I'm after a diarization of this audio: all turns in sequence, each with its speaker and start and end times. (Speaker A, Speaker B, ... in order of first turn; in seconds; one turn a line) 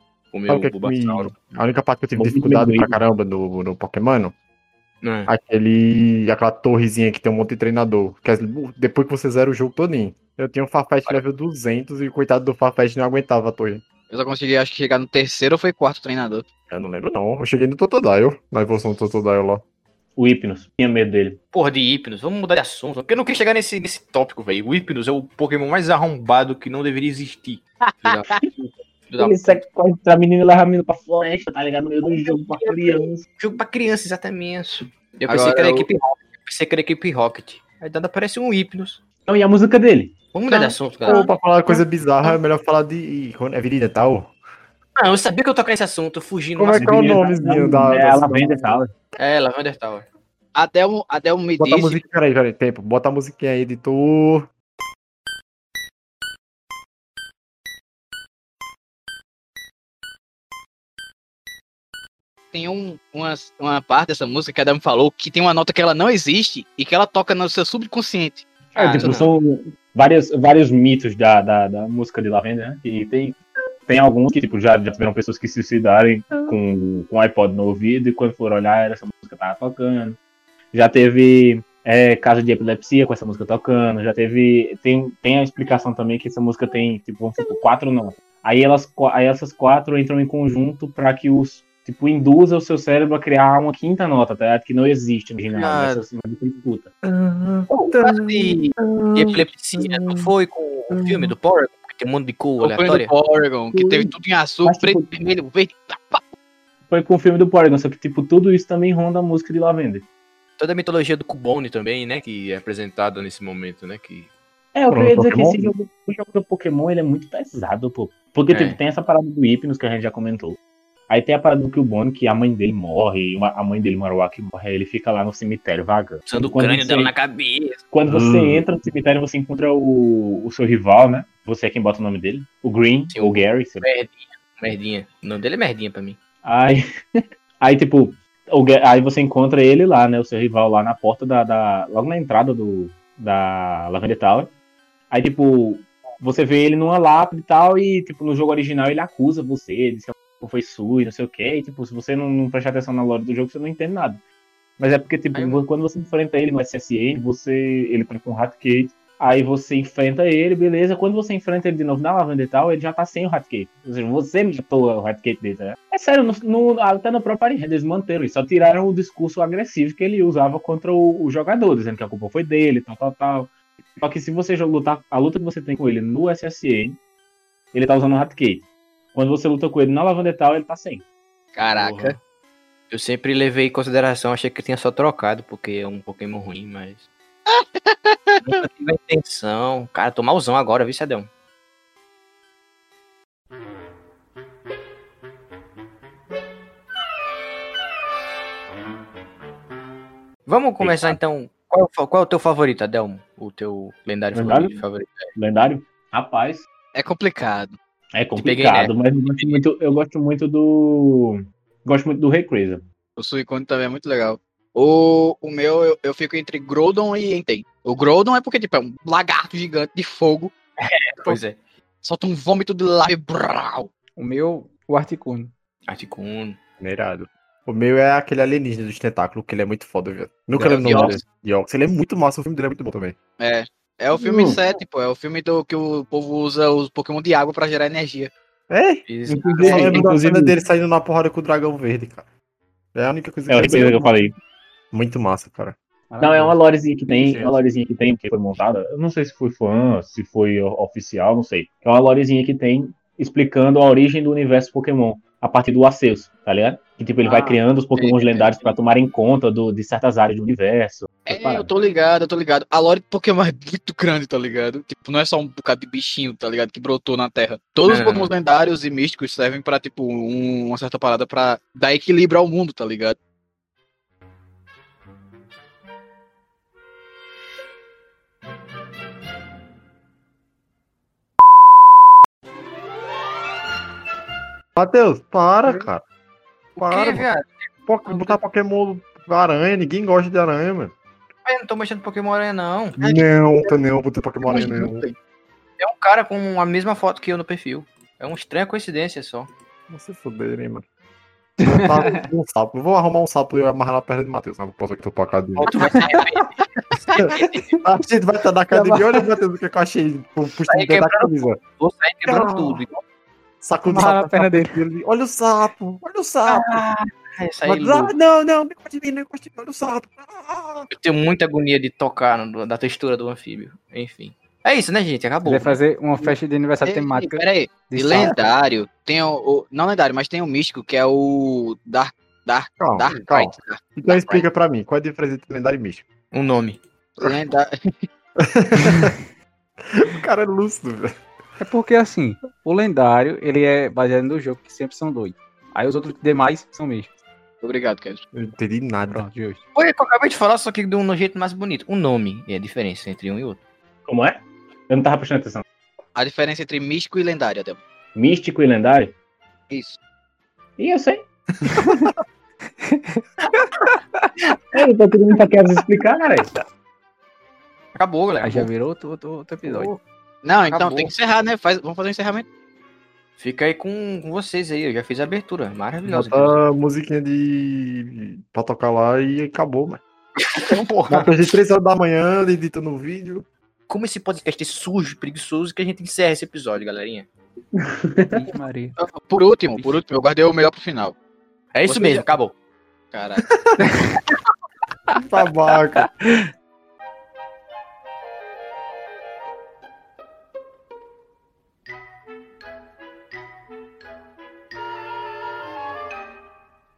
Speaker A: 0.3-1.3
Speaker B: 0.5-4.3
Speaker C: 2.2-3.0
Speaker A: 5.0-5.3
Speaker B: 5.3-13.8
Speaker D: 14.1-16.4
Speaker B: 16.7-19.6
Speaker C: 20.2-21.4
Speaker A: 21.5-28.3
Speaker D: 27.9-28.4
Speaker A: 29.1-29.6
Speaker C: 29.2-33.2
Speaker D: 32.6-33.0
Speaker A: 33.4-39.0
Speaker D: 35.3-35.9
Speaker C: 39.3-40.2
Speaker A: 40.3-41.3
Speaker D: 40.5-41.3
Speaker B: 40.9-44.3
Speaker A: 45.0-47.1
Speaker B: 46.6-48.8
Speaker C: 46.7-48.9
Speaker A: 49.2-50.1
Speaker D: 50.5-52.0
Speaker B: 51.6-54.5
Speaker D: 62.5-69.2
Speaker C: 68.7-80.2
Speaker A: 68.8-69.3
Speaker C: 80.7-96.9
Speaker B: 97.0-100.3
Speaker A: 97.7-103.1
Speaker B: 100.9-101.3
Speaker D: 102.6-106.3
Speaker C: 103.7-104.1
Speaker C: 104.7-105.1
Speaker C: 106.9-110.0
Speaker A: 110.6-114.3
Speaker C: 114.7-120.6
Speaker B: 114.9-115.7
Speaker A: 118.5-118.8
Speaker C: 121.1-127.1
Speaker A: 126.3-127.8
Speaker C: 127.9-133.8
Speaker B: 128.1-128.6
Speaker A: 133.1-136.2
Speaker C: 136.4-144.5
Speaker C: 145.1-154.2
Speaker C: 154.8-177.0
Speaker A: 155.3-155.6
Speaker C: 177.7-181.1
Speaker D: 181.6-182.2
Speaker C: 181.7-182.1
Speaker A: 182.9-187.1
Speaker D: 187.5-188.6
Speaker A: 188.4-191.3
Speaker A: 200.5-205.3
Speaker B: 200.8-201.2
Speaker C: 204.3-204.8
Speaker C: 205.3-206.7
Speaker D: 206.9-207.8
Speaker C: 208.1-212.8
Speaker A: 208.4-209.6
Speaker D: 213.2-220.5
Speaker A: 220.8-221.6
Speaker D: 222.0-223.9
Speaker E: 224.2-225.5
Speaker A: 225.9-226.6
Speaker B: 226.8-233.2
Speaker C: 230.6-231.2
Speaker D: 230.8-231.2
Speaker A: 230.8-231.1
Speaker D: 233.4-238.3
Speaker C: 234.2-234.6
Speaker B: 238.7-242.3
Speaker A: 239.1-240.1
Speaker C: 239.3-240.6
Speaker B: 242.9-244.1
Speaker C: 243.5-244.3
Speaker B: 244.9-245.8
Speaker E: 246.1-246.6
Speaker C: 246.2-261.7
Speaker D: 257.2-258.6
Speaker D: 261.3-273.2
Speaker A: 267.9-268.3
Speaker B: 284.8-286.0
Speaker B: 286.8-287.3
Speaker A: 286.8-288.3
Speaker B: 287.9-290.9
Speaker A: 291.4-293.0
Speaker B: 293.0-295.1
Speaker D: 294.4-295.1
Speaker A: 295.8-299.5
Speaker B: 299.9-300.9
Speaker E: 301.6-302.2
Speaker B: 301.7-305.7
Speaker D: 305.6-306.2
Speaker A: 305.6-306.5
Speaker B: 307.1-311.6
Speaker D: 307.1-307.6
Speaker A: 310.7-313.0
Speaker B: 312.2-312.9
Speaker B: 313.6-316.8
Speaker E: 313.8-314.8
Speaker A: 316.5-318.1
Speaker B: 317.6-320.9
Speaker A: 320.9-325.8
Speaker E: 325.4-328.3
Speaker D: 326.2-334.4
Speaker B: 332.8-336.1
Speaker A: 336.3-336.8
Speaker D: 337.2-338.1
Speaker B: 338.4-339.1
Speaker B: 339.8-341.1
Speaker E: 341.6-347.1
Speaker D: 347.6-348.2
Speaker B: 348.3-349.3
Speaker E: 349.1-349.6
Speaker A: 349.8-353.6
Speaker C: 354.1-355.6
Speaker D: 356.2-357.8
Speaker C: 358.1-359.1
Speaker D: 359.7-360.0
Speaker C: 360.8-361.8
Speaker E: 361.6-362.1
Speaker E: 362.8-364.3
Speaker C: 364.7-366.5
Speaker A: 367.9-368.7
Speaker E: 368.4-369.9
Speaker A: 369.7-369.9
Speaker D: 370.4-372.5
Speaker A: 370.6-371.1
Speaker A: 373.4-376.6
Speaker B: 376.1-380.0
Speaker A: 380.4-381.0
Speaker D: 380.7-381.2
Speaker B: 381.1-383.5
Speaker A: 383.9-387.3
Speaker C: 387.8-388.5
Speaker E: 388.5-389.0
Speaker D: 389.0-391.2
Speaker A: 391.7-392.5
Speaker D: 391.9-392.3
Speaker D: 393.1-393.4
Speaker E: 393.8-394.1
Speaker B: 395.1-396.1